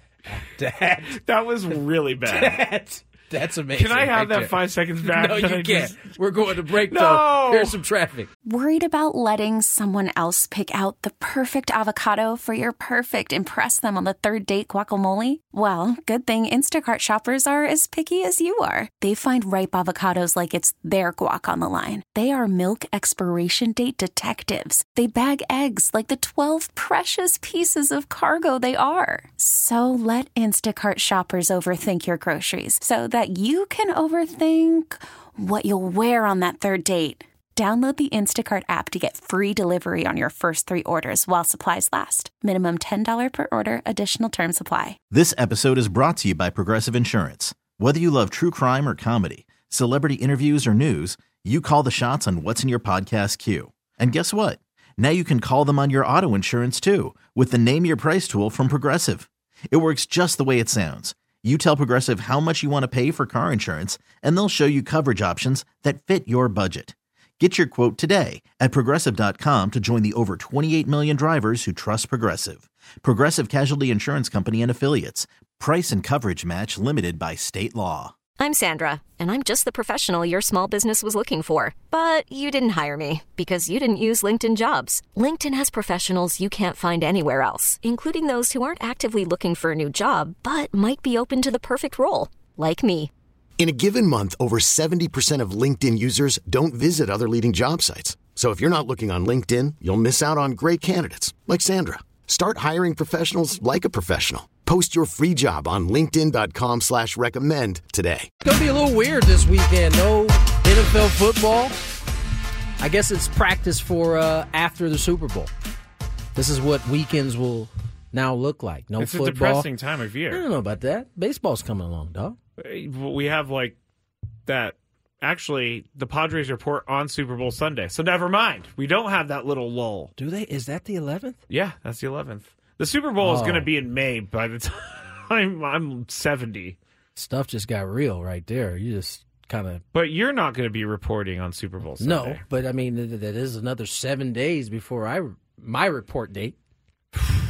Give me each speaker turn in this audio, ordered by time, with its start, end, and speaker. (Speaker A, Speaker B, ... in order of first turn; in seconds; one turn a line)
Speaker A: 0.3-1.2
Speaker B: 1.1-2.6
Speaker A: 2.2-8.3
Speaker B: 3.7-6.1
Speaker B: 6.9-7.8
Speaker C: 8.4-45.0
Speaker D: 45.1-78.1
Speaker E: 78.4-93.1
Speaker F: 93.6-108.3
Speaker A: 108.4-111.8
Speaker A: 112.8-115.5
Speaker A: 116.3-119.7
Speaker B: 119.0-120.4
Speaker A: 120.3-122.4
Speaker B: 122.6-123.8
Speaker B: 124.5-130.1
Speaker A: 130.2-131.4
Speaker B: 131.5-136.8
Speaker A: 133.2-133.7
Speaker A: 137.2-139.8
Speaker B: 139.9-142.4
Speaker A: 142.0-146.6